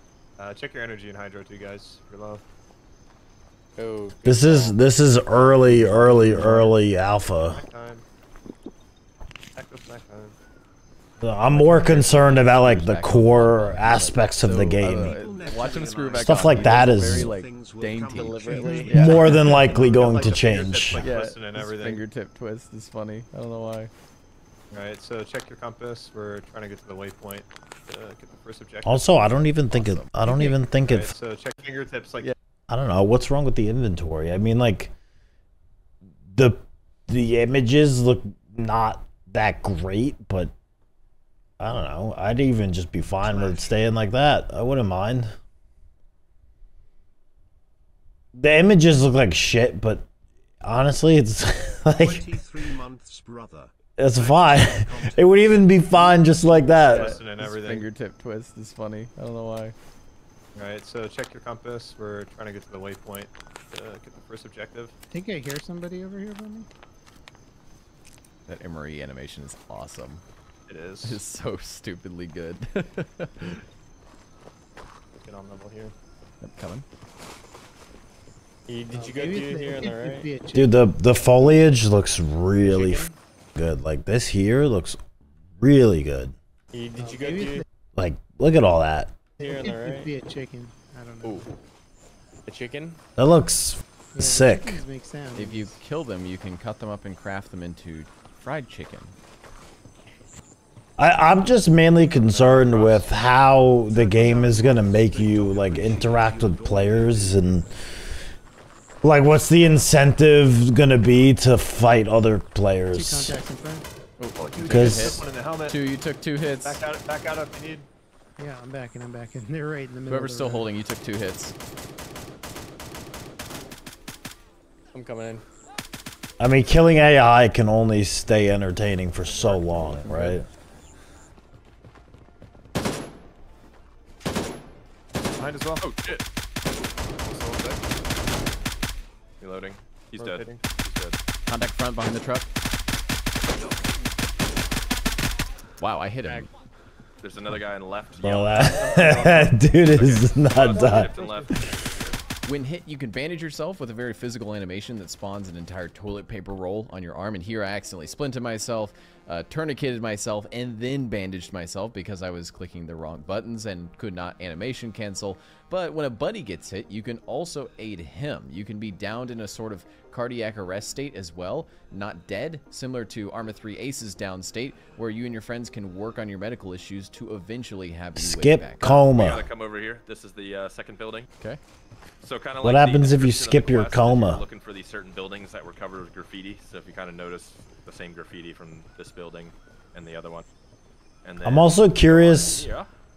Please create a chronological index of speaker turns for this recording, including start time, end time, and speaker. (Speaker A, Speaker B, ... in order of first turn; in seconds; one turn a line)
Speaker A: 0.4-2.4
Speaker B: 3.8-4.8
Speaker C: 4.2-7.6
Speaker D: 5.7-6.7
Speaker A: 7.3-8.1
Speaker A: 9.6-10.3
Speaker C: 11.2-15.2
Speaker D: 11.5-20.0
Speaker E: 14.6-19.3
Speaker C: 16.2-17.3
Speaker B: 18.1-18.9
Speaker A: 18.5-22.0
Speaker C: 18.9-21.1
Speaker D: 21.0-23.9
Speaker A: 24.7-29.5
Speaker C: 28.9-31.1
Speaker D: 29.7-30.1
Speaker A: 30.3-32.3
Speaker C: 32.7-34.9
Speaker C: 36.3-40.5
Speaker C: 41.6-45.3
Speaker E: 43.3-43.6
Speaker C: 48.3-50.1
Speaker C: 50.6-52.4
Speaker E: 51.9-56.8
Speaker C: 54.0-57.2
Speaker A: 56.8-57.9
Speaker D: 56.8-59.8
Speaker A: 60.5-64.9
Speaker F: 65.1-66.7
Speaker D: 68.5-70.2
Speaker A: 70.7-71.2
Speaker D: 71.0-73.5
Speaker A: 75.2-75.9
Speaker D: 76.4-76.8
Speaker B: 78.7-80.3
Speaker F: 78.9-81.7
Speaker C: 80.5-85.0
Speaker C: 85.6-86.3
Speaker B: 86.7-87.6
Speaker F: 87.0-87.6
Speaker C: 88.0-89.2
Speaker F: 89.4-91.5
Speaker B: 89.4-90.1
Speaker B: 92.5-93.0
Speaker C: 93.2-94.8
Speaker F: 94.1-95.8
Speaker D: 95.3-99.2
Speaker C: 101.0-107.7
Speaker A: 102.3-102.8
Speaker E: 103.9-107.6
Speaker C: 109.0-113.4
Speaker F: 112.9-113.9
Speaker D: 114.2-116.8
Speaker E: 114.4-115.3
Speaker C: 114.7-115.2
Speaker A: 114.7-115.8
Speaker A: 116.6-117.9
Speaker F: 118.4-120.7
Speaker D: 120.1-121.5
Speaker B: 124.9-125.4
Speaker C: 126.4-130.5
Speaker A: 129.2-130.0
Speaker D: 130.0-130.4
Speaker A: 135.4-135.9
Speaker G: 135.8-136.2
Speaker A: 137.2-137.8
Speaker G: 139.4-141.2
Speaker A: 140.2-140.6
Speaker D: 141.5-142.5
Speaker D: 145.8-146.5
Speaker G: 147.2-151.6
Speaker C: 148.2-151.8
Speaker A: 150.6-151.5
Speaker D: 152.4-179.0
Speaker C: 178.2-179.5
Speaker G: 178.8-181.3
Speaker G: 182.2-190.5
Speaker C: 182.6-184.4
Speaker G: 191.2-192.9
Speaker C: 191.4-192.7